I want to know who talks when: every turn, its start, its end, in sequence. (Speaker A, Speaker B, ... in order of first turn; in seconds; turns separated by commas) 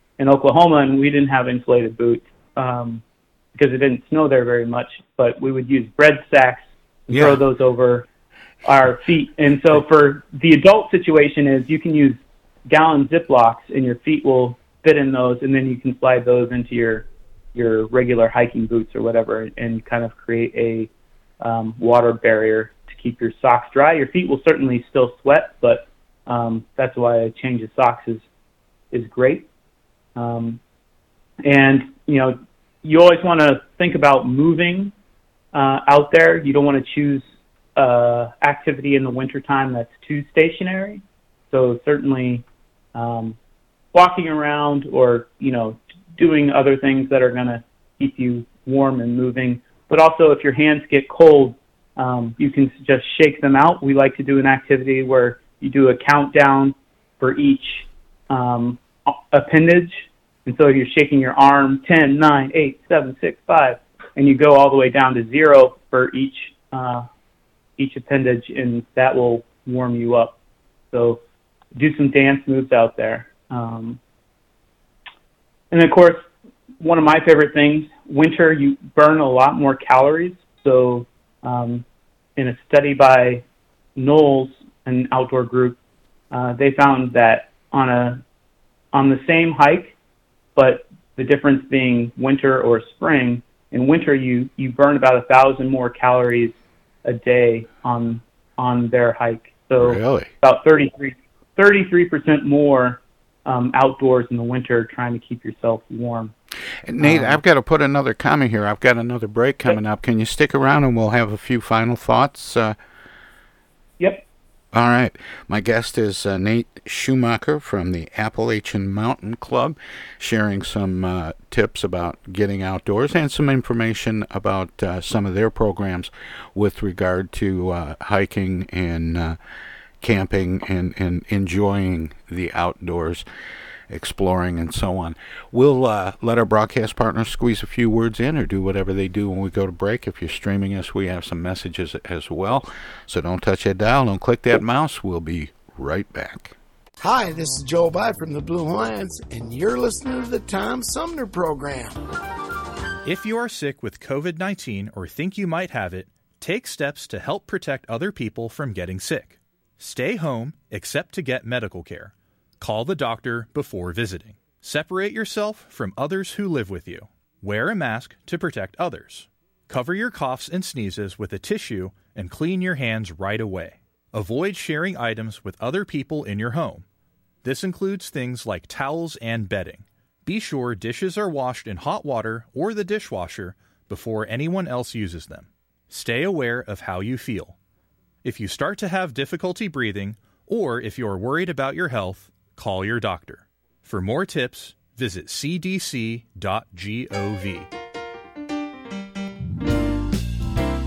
Speaker A: 0.2-3.0, Speaker A: 3.5-8.1, Speaker B: 7.1-7.4, Speaker A: 8.6-20.9, Speaker A: 21.4-28.2, Speaker A: 28.9-29.5, Speaker A: 30.1-30.6, Speaker A: 31.4-34.9, Speaker A: 35.5-37.2, Speaker A: 37.8-43.4, Speaker A: 43.9-67.0, Speaker A: 67.8-70.3, Speaker A: 70.9-71.2, Speaker A: 71.7-74.0, Speaker A: 75.7-76.3, Speaker A: 76.8-81.8, Speaker A: 82.3-83.4, Speaker A: 84.0-85.8, Speaker A: 86.3-88.2, Speaker A: 88.9-90.0, Speaker A: 90.5-106.3, Speaker B: 99.8-100.3, Speaker B: 106.8-112.8, Speaker A: 107.0-107.4, Speaker B: 114.7-129.4, Speaker B: 130.0-133.2, Speaker B: 133.9-146.6, Speaker C: 147.0-152.0, Speaker D: 153.0-176.8, Speaker D: 177.4-187.6, Speaker D: 188.2-197.7